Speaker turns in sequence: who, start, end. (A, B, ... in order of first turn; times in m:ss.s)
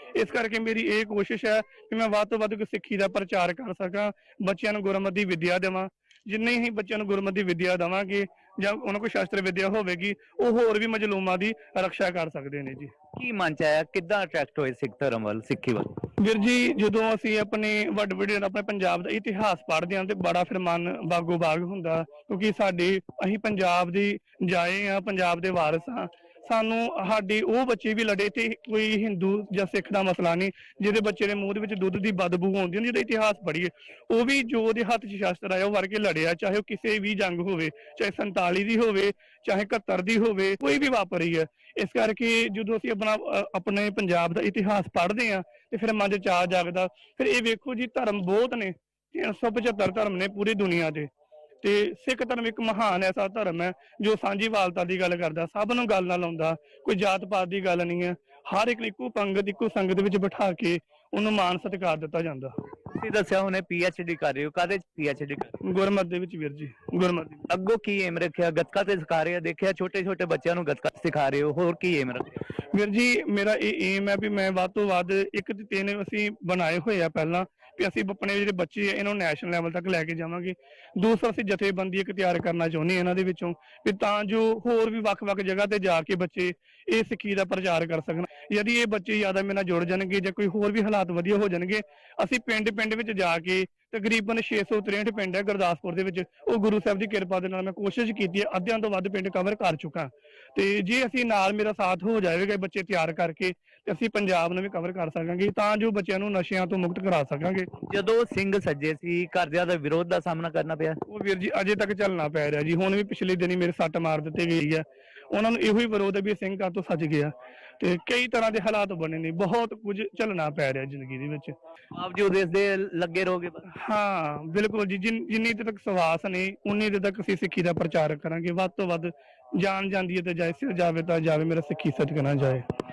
0:00.1-0:12.9 A
0:13.2-0:15.9 B
0:16.2-0:51.1 A
0:51.6-1:02.5 A
1:02.9-1:05.6 B
1:05.6-1:07.4 A
1:07.5-1:12.4 B
1:12.7-1:47.7 A
1:47.9-1:51.0 B
1:51.1-2:01.6 A
2:01.9-2:03.6 B
2:03.7-2:12.6 A